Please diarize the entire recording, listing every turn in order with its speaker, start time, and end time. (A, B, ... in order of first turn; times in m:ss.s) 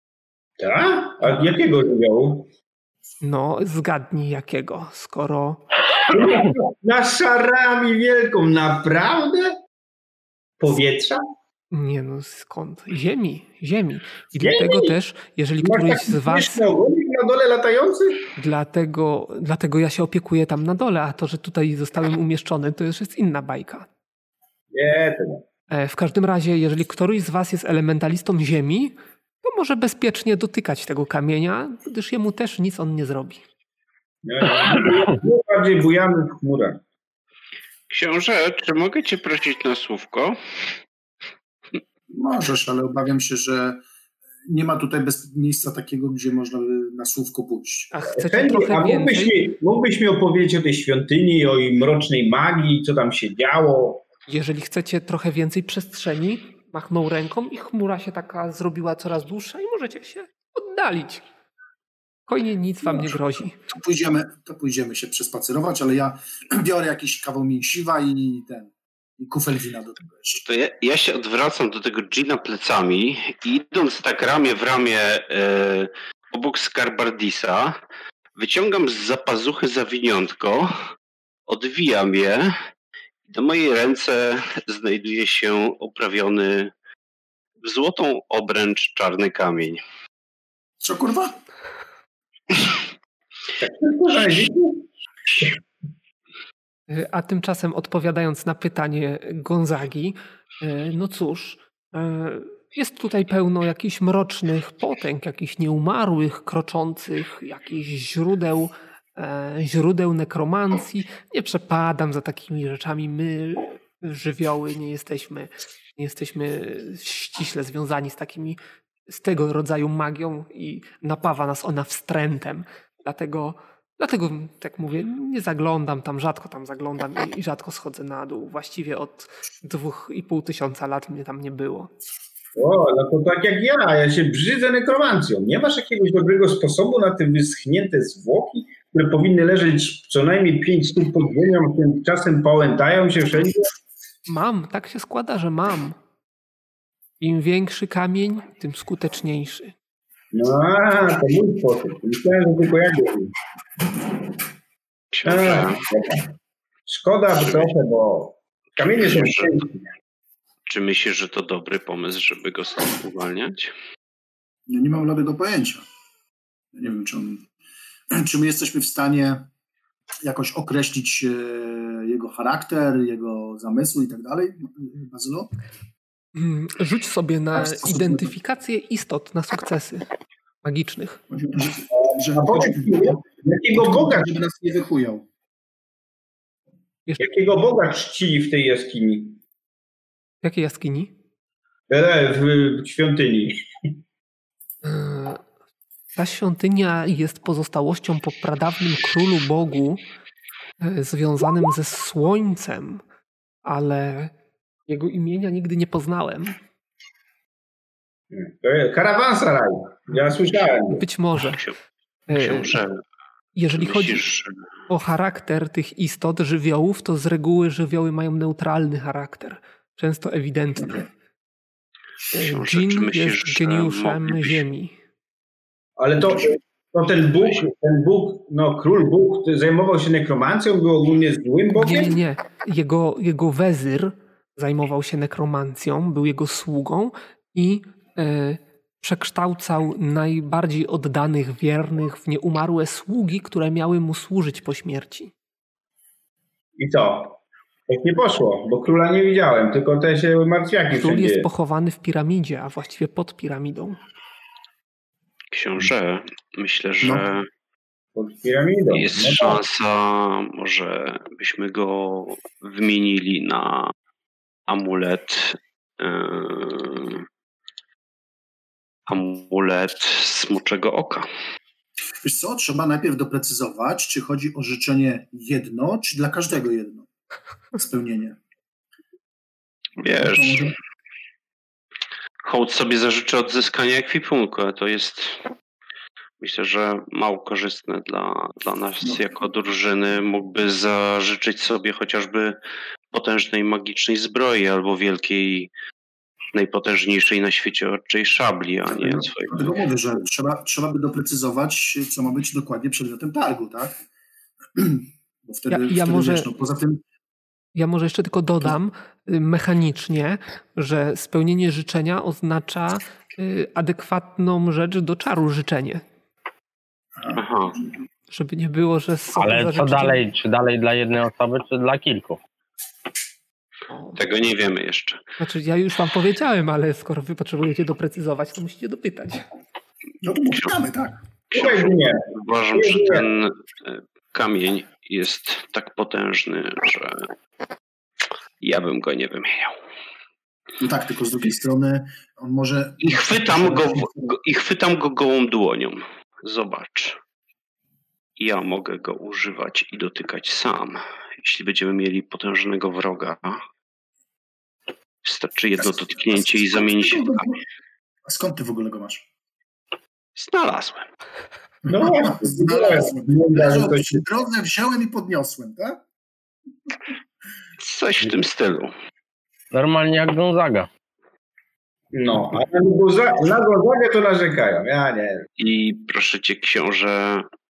0:00.6-0:02.5 A
0:03.2-0:05.7 B
0:06.1-0:09.6 A
0:10.6-0:11.2 A
0:11.7-0:16.6 B
0:14.4-0:15.0 A
0:15.6-0:18.3 A
0:18.4-0:23.9 B
0:24.7-0:25.4 A
0:25.7-0:33.4 B
0:34.2-0:36.8 A
0:37.9-0:40.4 C
0:42.1-0:43.8 D
0:44.5-0:47.9 D
0:47.9-0:49.4 B
0:48.1-0:54.0 A
0:54.3-1:01.2 B
1:02.3-1:03.6 B
1:02.9-1:03.1 D
1:03.7-1:10.4 D
1:10.4-1:17.8 C
1:18.4-1:20.7 C
1:21.5-1:22.6 C
1:23.3-1:26.7 C
1:27.6-1:29.8 C
1:30.8-1:31.4 D
1:33.6-1:34.9 A
1:36.9-2:11.9 B
2:12.6-2:23.7 A
2:24.3-2:26.0 B
2:27.2-2:29.8 B
2:30.3-2:33.4 A
2:35.1-2:35.8 C
2:35.2-2:36.3 A
2:36.9-2:39.8 A
2:37.4-2:37.7 C
2:39.1-2:39.5 C
2:40.7-2:43.7 C
2:44.7-2:45.8 D
2:46.8-2:47.5 D
2:48.1-2:49.5 D
2:50.2-2:55.5 D
2:56.4-3:00.1 B
2:57.6-2:58.3 D
3:00.6-3:01.2 B
3:01.3-3:05.2 D
3:02.3-3:04.4 A
3:07.2-3:09.4 A
3:10.4-3:11.1 B
3:11.9-3:13.7 A
3:14.8-3:15.4 B
3:16.2-3:20.0 B
3:20.8-3:23.0 B
3:23.6-3:24.3 B
3:24.9-3:26.6 B
3:28.3-3:31.0 A
3:30.9-3:31.6 B
3:31.4-3:31.8 C
3:32.3-3:32.8 B
3:32.3-3:33.0 C
3:33.6-3:34.2 B
3:33.8-3:34.5 C
3:34.9-3:41.1 B
3:42.3-3:45.0 B
3:42.4-3:44.6 C
3:46.0-3:52.2 A
3:51.8-4:05.3 B
4:06.8-4:11.5 A
4:11.0-4:14.0 B
4:15.5-4:17.5 C
4:18.2-4:19.6 A
4:18.9-4:23.9 C
4:24.7-4:27.3 C
4:29.1-4:31.3 C
4:32.2-4:37.1 D
4:37.8-4:38.4 D
4:40.0-4:40.7 C
4:40.0-4:40.8 D
4:42.4-4:45.4 C
4:46.4-4:52.6 C
4:53.1-4:55.7 C
4:56.5-4:59.7 C
4:59.0-5:04.0 D
5:04.8-5:07.0 D
5:05.7-5:06.5 B
5:07.8-5:16.0 B
5:17.2-5:17.8 D
5:17.4-5:17.8 C
5:18.3-5:20.2 B
5:19.4-5:22.4 E
5:23.9-5:24.2 B
5:24.2-5:25.2 C
5:25.4-5:29.5 B
5:30.2-5:31.2 D
5:31.5-5:37.3 C
5:31.5-5:33.3 A
5:38.6-5:39.8 C
5:40.8-5:44.1 D
5:43.0-5:47.2 C
5:48.4-5:53.6 C
5:55.2-5:57.6 C
5:55.8-5:57.6 D
5:58.2-5:59.2 D
6:00.4-6:01.1 C
6:01.9-6:04.2 A
6:01.9-6:06.0 D
6:07.8-6:08.9 C
6:09.7-6:10.9 E
6:12.1-6:15.4 A
6:15.6-6:17.5 C